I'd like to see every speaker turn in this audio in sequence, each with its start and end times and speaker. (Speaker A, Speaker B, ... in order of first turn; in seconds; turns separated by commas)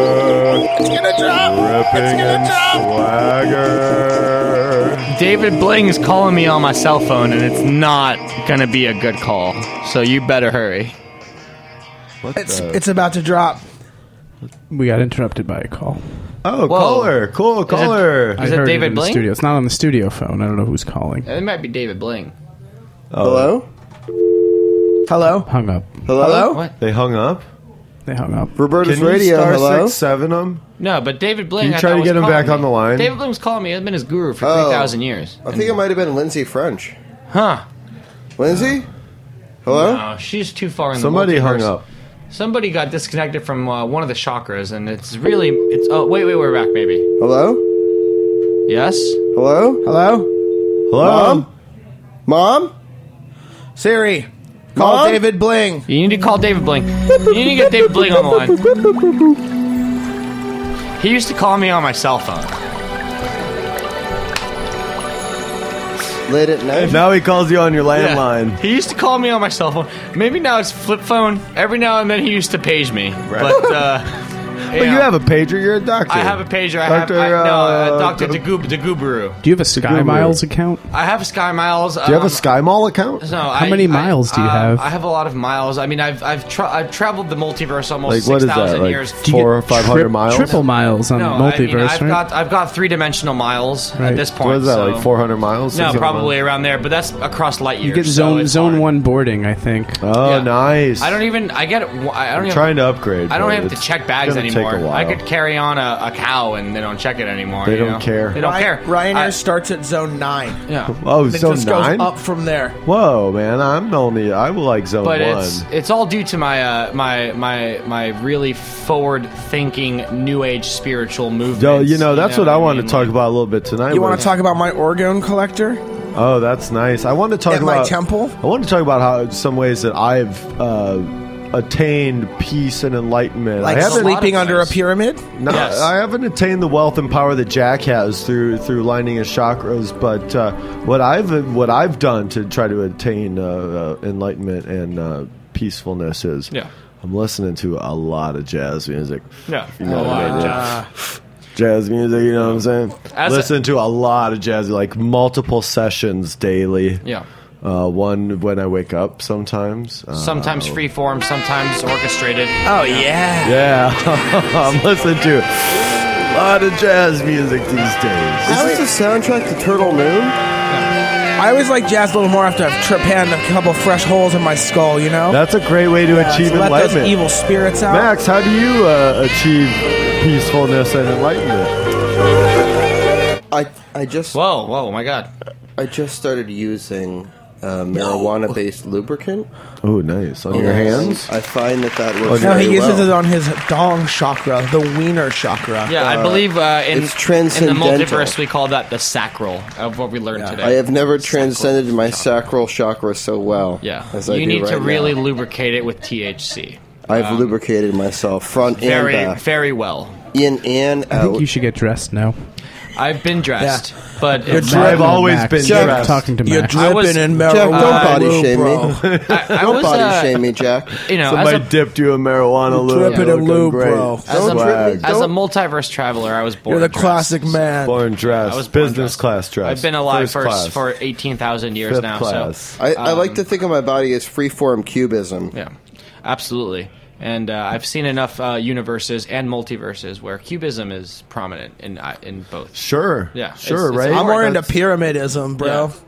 Speaker A: 0.3-0.6, Speaker B: 0.7-2.9, Speaker A: 1.3-5.1, Speaker C: 5.1-10.9, Speaker A: 12.2-12.8, Speaker B: 12.3-13.6, Speaker D: 14.7-16.0, Speaker A: 16.4-18.4, Speaker C: 16.7-19.2, Speaker D: 18.4-21.3, Speaker C: 21.2-22.3, Speaker A: 23.1-23.6, Speaker E: 23.2-23.7, Speaker B: 25.1-25.5, Speaker D: 25.5-26.0, Speaker E: 26.1-26.6, Speaker B: 26.1-26.6, Speaker A: 26.2-27.5, Speaker D: 28.1-28.6, Speaker E: 28.6-30.0, Speaker A: 28.8-30.6, Speaker C: 30.8-35.8, Speaker A: 31.6-33.1, Speaker E: 34.4-37.0, Speaker C: 37.3-37.6, Speaker E: 38.4-38.9, Speaker E: 39.6-40.0, Speaker C: 39.7-41.7, Speaker A: 41.0-41.8, Speaker C: 42.3-47.0, Speaker E: 47.2-47.6, Speaker C: 48.7-49.2, Speaker E: 49.3-49.8, Speaker B: 49.8-50.3, Speaker A: 50.9-51.5, Speaker E: 51.0-51.5, Speaker E: 52.2-52.7, Speaker B: 53.8-55.9, Speaker E: 54.7-55.2, Speaker C: 55.9-58.6, Speaker C: 61.0-62.5, Speaker E: 66.2-67.0, Speaker A: 66.8-68.6, Speaker C: 67.9-75.1, Speaker A: 73.3-73.8, Speaker A: 74.7-78.4, Speaker C: 76.1-79.4, Speaker D: 79.4-80.8, Speaker A: 79.7-80.4, Speaker C: 80.9-82.5, Speaker A: 82.0-83.2, Speaker C: 83.2-89.3, Speaker D: 83.5-84.9, Speaker A: 88.0-90.6, Speaker D: 89.2-92.2, Speaker C: 90.4-95.1, Speaker D: 94.0-94.2, Speaker A: 94.4-96.3, Speaker C: 95.7-98.8, Speaker D: 97.8-100.0, Speaker A: 100.0-101.2, Speaker C: 100.2-109.3, Speaker A: 102.3-105.2, Speaker A: 107.6-108.4, Speaker B: 108.3-110.6, Speaker C: 110.7-111.0, Speaker A: 111.0-112.1, Speaker B: 111.2-112.8, Speaker A: 112.8-115.6, Speaker C: 115.0-123.2, Speaker A: 121.5-124.3, Speaker B: 123.9-125.8, Speaker A: 126.1-134.2, Speaker B: 127.5-128.3, Speaker B: 133.6-135.3, Speaker C: 133.7-134.8, Speaker A: 135.3-150.8, Speaker C: 135.5-135.9, Speaker C: 149.5-150.8, Speaker B: 149.8-150.9, Speaker A: 151.5-157.0, Speaker C: 152.3-153.5, Speaker A: 157.6-160.8, Speaker C: 160.1-163.1, Speaker B: 162.6-163.6, Speaker A: 163.4-168.6, Speaker E: 168.4-170.3, Speaker B: 168.5-168.8, Speaker B: 171.4-175.4, Speaker A: 175.3-177.2, Speaker B: 176.1-178.1, Speaker A: 177.9-181.7, Speaker E: 183.5-184.4, Speaker C: 184.3-185.3, Speaker E: 185.8-189.5, Speaker A: 189.8-191.3, Speaker E: 190.5-193.1, Speaker B: 190.6-191.0, Speaker A: 192.2-192.9, Speaker B: 192.4-195.9, Speaker C: 195.8-202.5, Speaker E: 195.9-198.4, Speaker E: 200.6-205.2, Speaker C: 203.8-207.6, Speaker E: 207.1-209.4, Speaker C: 208.7-210.2, Speaker E: 210.3-211.5, Speaker D: 211.1-212.4, Speaker C: 212.9-215.1, Speaker B: 213.6-213.9, Speaker B: 214.4-215.2, Speaker D: 214.5-216.8, Speaker A: 214.6-216.3, Speaker E: 215.6-216.2, Speaker B: 216.3-219.0, Speaker C: 216.7-218.3, Speaker E: 217.4-218.9, Speaker A: 218.9-220.0, Speaker C: 219.3-221.7, Speaker E: 219.5-221.0, Speaker A: 221.1-225.1, Speaker B: 222.7-224.4, Speaker C: 223.0-223.3, Speaker C: 224.3-233.4, Speaker E: 224.3-225.4, Speaker B: 226.7-228.0, Speaker A: 227.8-230.8, Speaker A: 231.9-232.8, Speaker E: 232.8-235.5, Speaker C: 235.5-244.7, Speaker A: 242.7-244.6, Speaker B: 244.1-245.9, Speaker C: 245.6-245.9